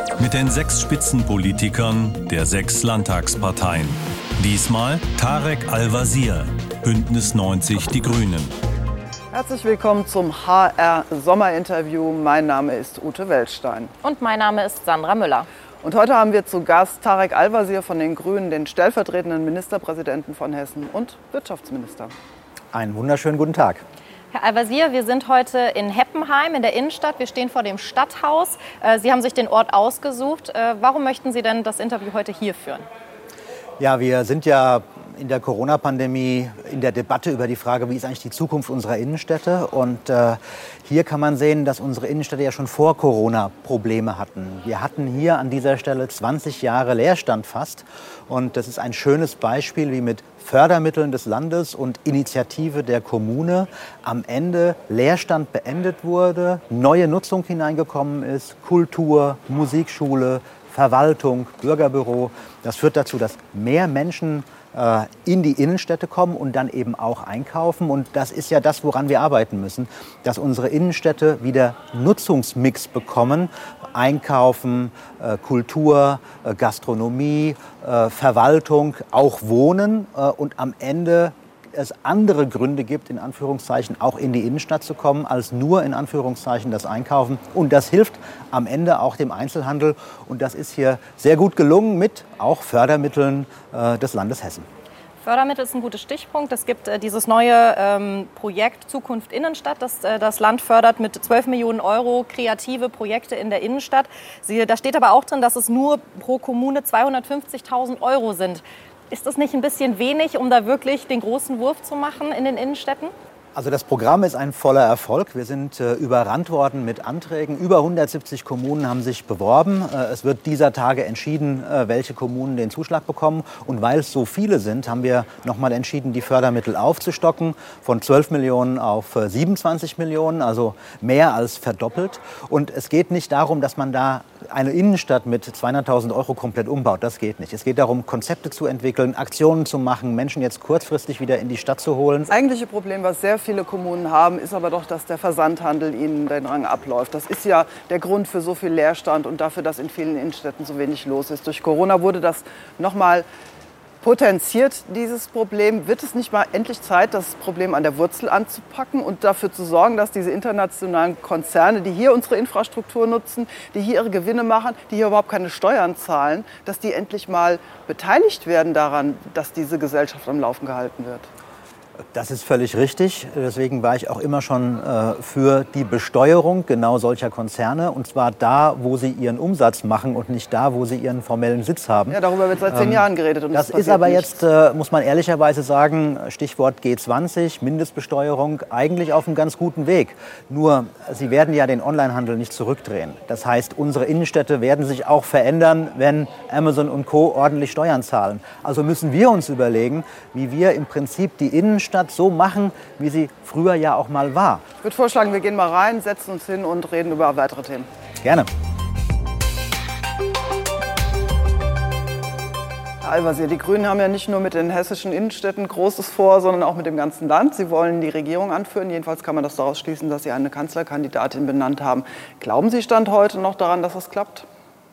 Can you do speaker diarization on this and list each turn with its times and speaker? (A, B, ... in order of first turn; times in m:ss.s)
0:00.2-0:08.5 A
0:09.3-0:13.9 B
0:14.0-0:15.5 C
0:15.8-0:22.1 B
0:22.7-0:23.8 D
0:24.3-0:32.8 C
0:33.8-1:34.7 D
1:35.2-1:53.1 C
1:53.5-2:22.3 D
2:22.3-2:33.2 B
2:34.0-2:51.3 B
2:52.1-3:24.6 D
3:02.1-3:04.3 B
3:24.8-3:27.9 B
3:28.2-3:28.5 D
3:33.0-3:44.4 B